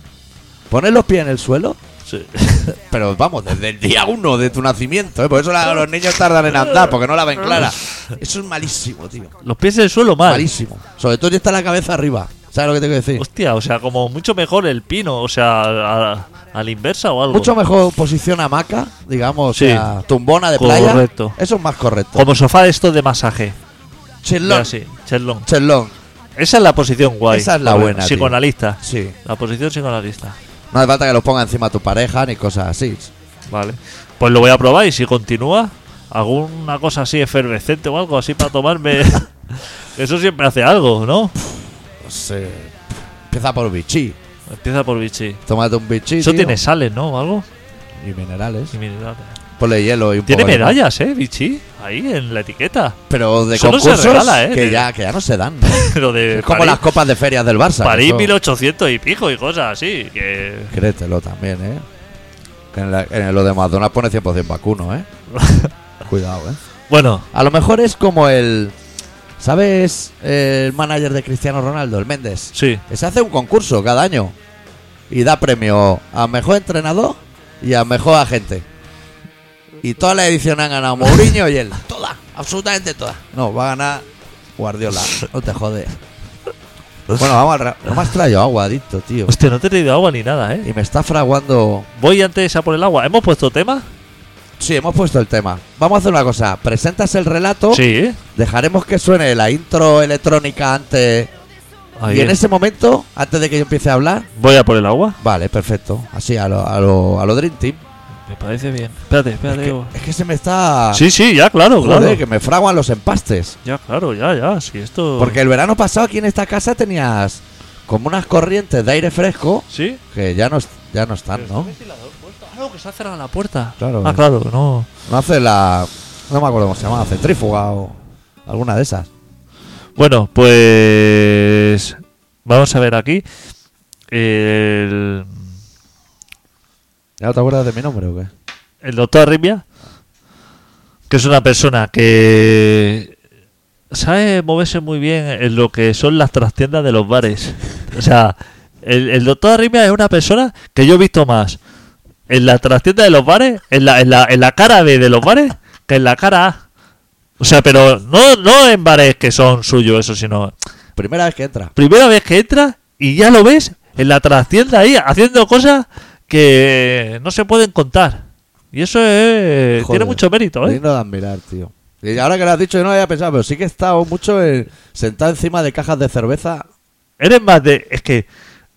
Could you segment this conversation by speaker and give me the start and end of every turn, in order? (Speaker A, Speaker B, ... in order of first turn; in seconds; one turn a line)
Speaker A: 0.7-1.8
Speaker B: 2.1-2.8
Speaker A: 2.8-9.3
Speaker B: 9.4-10.5
Speaker A: 10.2-13.2
Speaker B: 13.2-17.5
Speaker A: 17.3-22.3
Speaker B: 19.5-19.9
Speaker B: 20.6-21.4
Speaker B: 22.1-23.6
Speaker A: 24.2-24.7
Speaker B: 24.4-25.5
Speaker A: 25.4-25.9
Speaker B: 26.4-30.4
Speaker A: 27.3-29.2
Speaker A: 30.7-33.1
Speaker B: 33.5-41.4
Speaker A: 42.0-44.2
Speaker B: 44.5-45.4
Speaker A: 45.5-46.6
Speaker B: 46.2-47.5
Speaker A: 48.0-48.8
Speaker B: 48.7-49.4
Speaker A: 49.6-50.8
Speaker B: 50.3-53.0
Speaker A: 53.1-58.3
Speaker B: 53.5-54.9
Speaker B: 55.7-56.8
Speaker B: 57.8-60.7
Speaker A: 60.7-61.9
Speaker A: 62.7-65.1
Speaker B: 65.3-65.7
Speaker A: 66.0-66.6
Speaker B: 66.9-67.3
Speaker A: 67.3-68.8
Speaker A: 69.4-74.3
Speaker B: 72.5-72.8
Speaker A: 75.1-78.7
Speaker A: 79.8-84.1
Speaker A: 84.6-86.0
Speaker A: 87.1-89.3
Speaker B: 89.3-90.7
Speaker A: 90.6-91.9
Speaker B: 92.0-93.9
Speaker A: 94.6-97.8
Speaker B: 97.7-98.2
Speaker A: 98.3-101.3
Speaker B: 102.0-102.4
Speaker A: 102.1-104.3
Speaker B: 104.4-105.2
Speaker A: 105.2-107.8
Speaker B: 108.3-109.9
Speaker A: 109.5-111.0
Speaker B: 110.9-112.2
Speaker A: 111.8-113.6
Speaker B: 113.7-115.4
Speaker A: 115.2-121.7
Speaker B: 119.7-120.0
Speaker B: 121.4-124.9
Speaker A: 123.8-124.2
Speaker A: 125.1-129.1
Speaker B: 130.0-133.2
Speaker B: 134.1-135.3
Speaker A: 137.2-138.3
Speaker B: 138.8-139.6
Speaker B: 141.1-143.2
Speaker B: 143.9-151.6
Speaker B: 152.3-156.6
Speaker B: 157.4-160.5
Speaker A: 161.0-161.7
Speaker B: 161.8-170.8
Speaker A: 169.8-176.7
Speaker B: 177.2-178.3